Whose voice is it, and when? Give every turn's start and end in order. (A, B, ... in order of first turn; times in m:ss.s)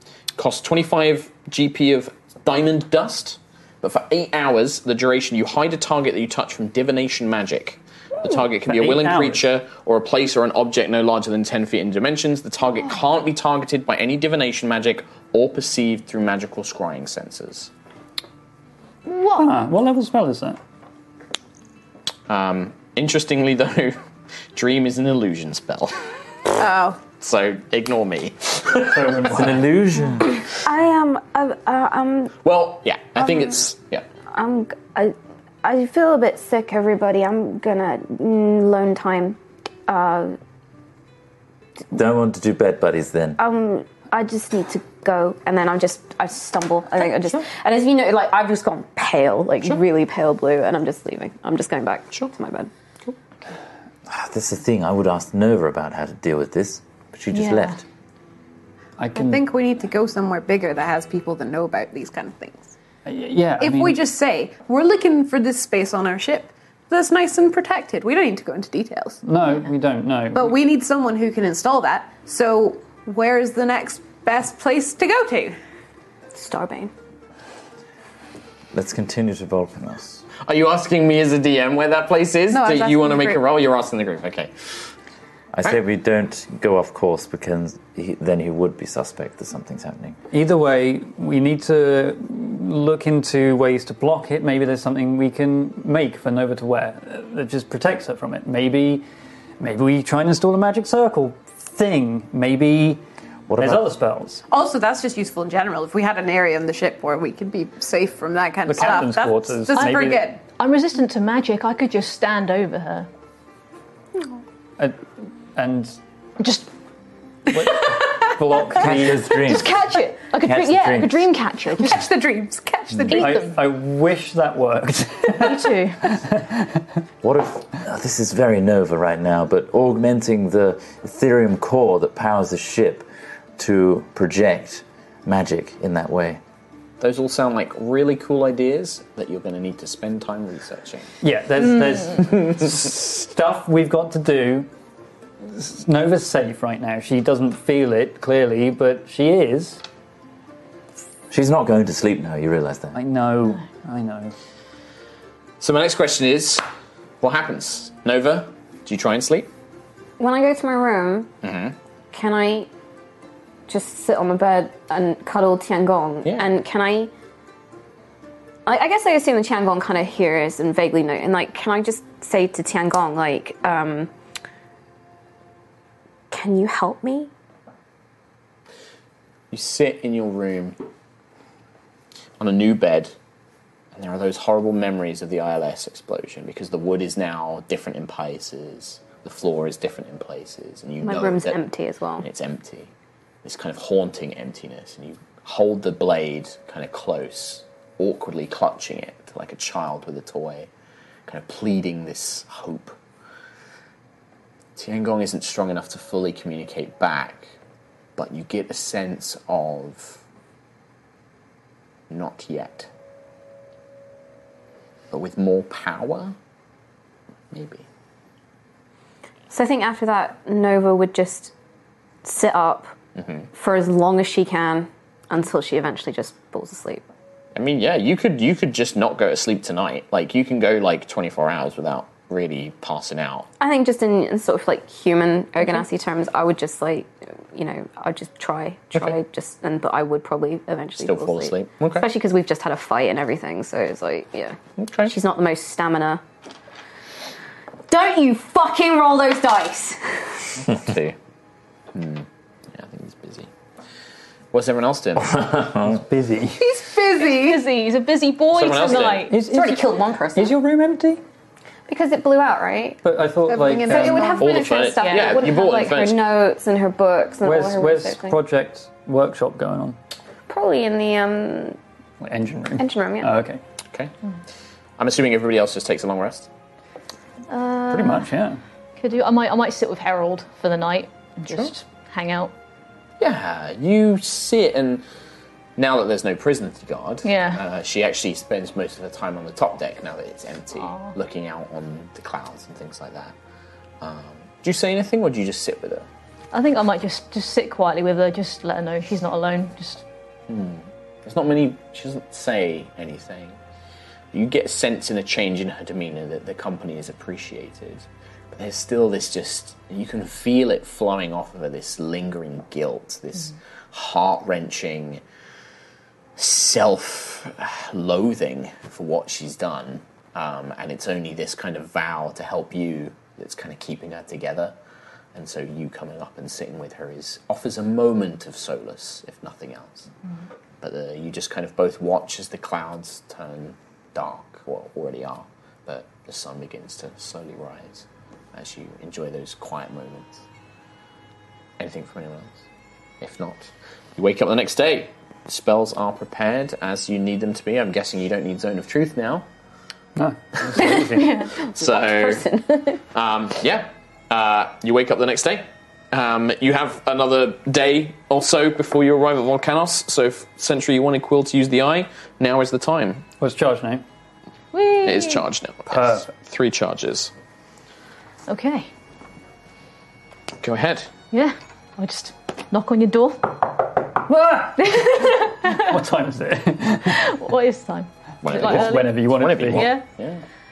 0:00.4-0:17.7 A
0:08.6-0:09.5 B
0:19.0-0:19.6 C
0:19.3-0:20.6 B
0:22.3-0:24.0 A
0:24.5-0:26.0 A
0:26.6-0:27.0 D
0:27.0-0:29.3 A
0:28.9-0:29.7 B
0:29.3-0:30.4 E
0:30.5-0:32.3 F
0:32.4-0:34.0 A
0:34.3-0:40.4 F
0:41.9-0:43.4 E
0:43.4-0:52.7 F
0:54.1-0:57.8 E
0:57.3-0:57.8 C
0:59.0-0:59.4 B
0:59.1-1:02.7 D
1:03.0-1:04.0 B
1:03.6-1:09.2 D
1:09.2-1:10.6 B
1:10.3-1:15.6 D
1:16.3-1:16.9 F
1:18.7-1:20.2 E
1:20.4-1:24.5 A
1:22.5-1:23.4 D
1:25.5-1:30.2 E
1:30.3-1:39.0 B
1:39.6-1:43.0 B
1:43.5-1:43.9 E
1:43.6-1:44.4 B
1:44.5-1:50.4 D
1:48.6-1:50.3 B
1:49.7-1:53.1 C
1:54.8-1:55.0 B
1:55.5-1:56.0 B
1:56.4-1:56.7 C
1:57.5-1:59.3 B
1:58.7-1:59.8 E
1:59.3-2:02.1 C
2:00.4-2:01.3 E
2:01.8-2:03.5 D
2:03.1-2:03.4 C
2:03.1-2:06.8 B
2:05.3-2:06.0 C
2:07.2-2:13.0 E
2:13.6-2:16.4 E
2:17.0-2:21.1 A
2:21.2-2:24.7 B
2:25.5-2:29.8 B
2:31.3-2:33.0 E
2:32.9-2:34.3 B
2:35.6-2:36.6 A
2:37.2-2:39.5 A
2:40.2-2:41.3 F
2:41.4-2:41.8 A
2:42.1-2:42.7 F
2:43.7-2:47.1 F
2:46.2-2:46.5 A
2:48.6-2:54.1 F
2:56.3-2:57.3 F
2:59.5-3:00.8 A
3:02.4-3:03.1 A
3:03.9-3:11.6 A
3:11.0-3:12.2 F
3:12.2-3:12.9 A
3:13.4-3:20.7 A
3:21.3-3:23.0 A
3:24.8-3:27.5 A
3:28.2-3:30.2 A
3:32.1-3:32.9 A
3:35.1-3:36.4 A
3:37.5-3:37.8 A
3:39.5-3:41.5 F
3:42.2-3:42.9 F
3:43.2-3:43.5 A
3:43.5-3:47.0 F
3:47.5-3:53.5 A
3:53.6-4:06.2 F
4:01.0-4:02.1 A
4:04.8-4:05.1 A
4:07.9-4:10.2 F
4:10.6-4:11.2 A
4:11.9-4:13.5 A
4:14.5-4:15.5 A
4:15.2-4:16.0 E
4:15.8-4:16.7 B
4:16.6-4:17.6 D
4:17.1-4:19.4 C
4:18.5-4:19.3 A
4:19.3-4:21.2 B
4:19.4-4:20.5 F
4:21.9-4:23.0 F
4:23.0-4:24.4 B
4:23.5-4:24.7 D
4:23.8-4:28.4 F
4:24.4-4:26.2 A
4:27.4-4:30.0 B
4:30.5-4:31.8 F
4:32.2-4:33.6 B
4:32.8-4:33.3 F
4:35.0-4:36.5 A
4:37.5-4:38.3 C
4:37.9-4:38.6 B
4:39.0-4:42.5 C
4:43.2-4:45.0 A
4:45.8-4:53.3 A
4:47.2-4:47.6 C
4:50.8-4:51.1 C
4:54.0-4:56.1 A
4:56.5-5:00.0 C
5:00.5-5:03.6 A
5:04.3-5:15.2 A
5:16.4-5:24.8 A
5:25.3-5:30.1 A
5:30.8-5:40.4 A
5:41.8-5:42.6 A
5:43.2-5:49.4 A
5:50.2-5:51.3 B
5:50.8-5:51.5 C
5:51.6-5:52.4 A
5:51.6-5:53.0 F
5:53.1-6:03.2 A
6:03.4-6:04.0 B
6:04.7-6:05.4 C
6:05.0-6:07.3 A
6:05.9-6:06.3 B
6:08.5-6:08.9 C
6:10.6-6:11.1 A
6:11.3-6:14.0 C
6:14.2-6:17.3 B
6:14.8-6:16.0 C
6:17.0-6:20.0 C
6:18.4-6:20.4 A
6:18.5-6:19.9 B